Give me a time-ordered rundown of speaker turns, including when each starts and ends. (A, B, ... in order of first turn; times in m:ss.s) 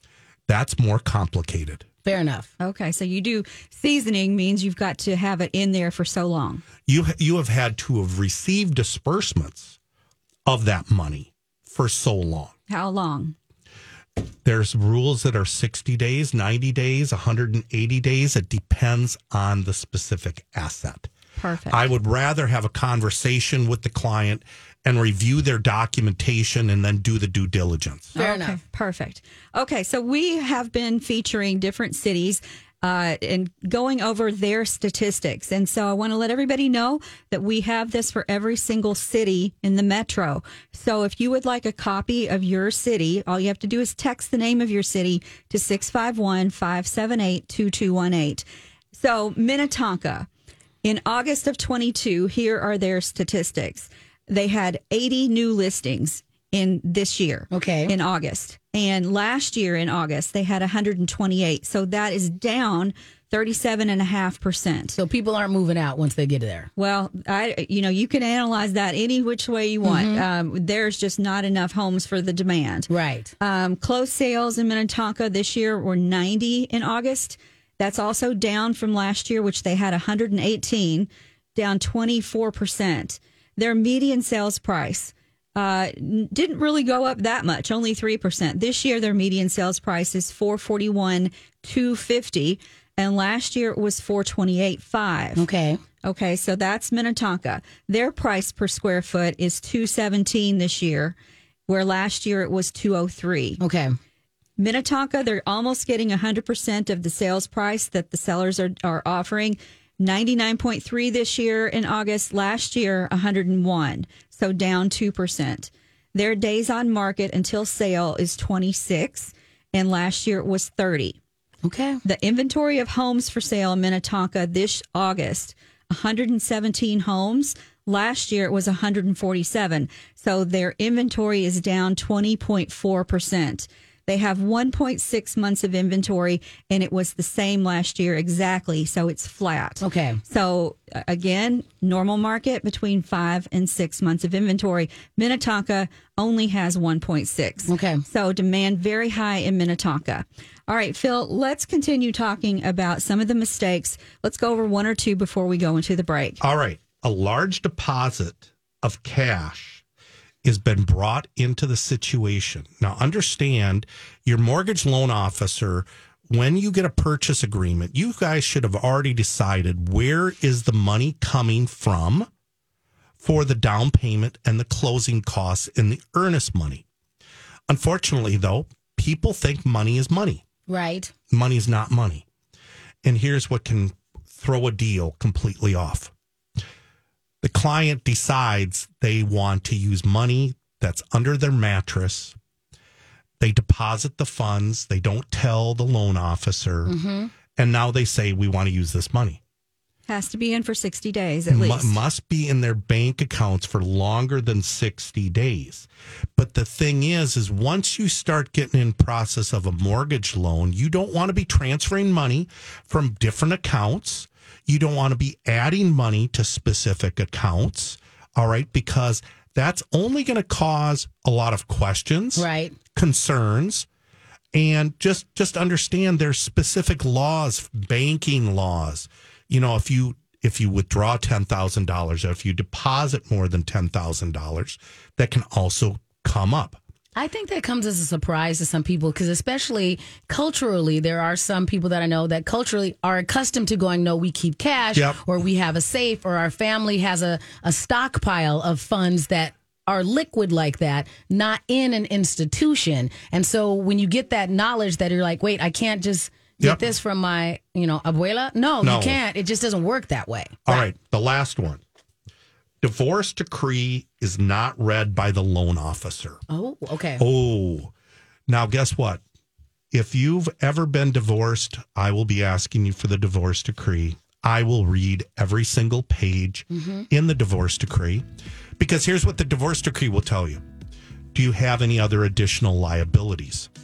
0:00.5-0:01.9 A
0:02.1-0:02.5 B
0:02.6-0:06.6 C
0:06.9-0:09.8 A
0:10.5-0:12.5 A
0:12.7-0:13.4 C
0:14.4-0:21.1 A
0:21.4-0:21.8 C
0:21.7-0:28.2 A
0:28.2-0:28.6 B
0:28.2-0:50.3 C
0:50.8-1:05.0 C
0:57.5-0:57.9 B
1:05.0-1:06.7 B
1:06.8-1:35.4 C
1:09.8-1:10.2 B
1:12.9-1:13.3 B
1:35.4-1:35.8 B
1:36.0-1:41.2 C
1:41.7-1:43.6 C
1:43.6-1:43.9 B
1:44.6-2:01.2 C
2:01.6-2:02.0 B
2:02.0-2:36.4 C
2:19.8-2:20.2 B
2:27.7-2:28.0 B
2:36.4-2:39.8 A
2:40.4-2:52.3 A
2:53.2-2:56.8 A
2:57.7-3:00.4 A
3:00.7-3:01.1 B
3:01.3-3:02.2 A
3:03.0-3:06.1 A
3:07.4-3:12.4 A
3:13.4-3:17.0 A
3:16.9-3:17.3 B
3:17.6-3:19.4 A
3:20.1-3:22.0 C
3:21.5-3:43.9 A
3:42.4-3:42.8 B
3:44.5-3:56.8 A
3:57.2-4:20.9 B
4:05.0-4:05.2 A
4:18.8-4:19.2 A
4:20.7-4:21.8 A
4:22.8-4:26.4 A
4:26.5-4:27.2 B
4:27.2-4:27.9 A
4:28.5-4:29.2 A
4:29.9-4:38.2 A
4:36.7-4:37.1 B
4:38.8-4:40.6 A
4:41.3-4:43.7 A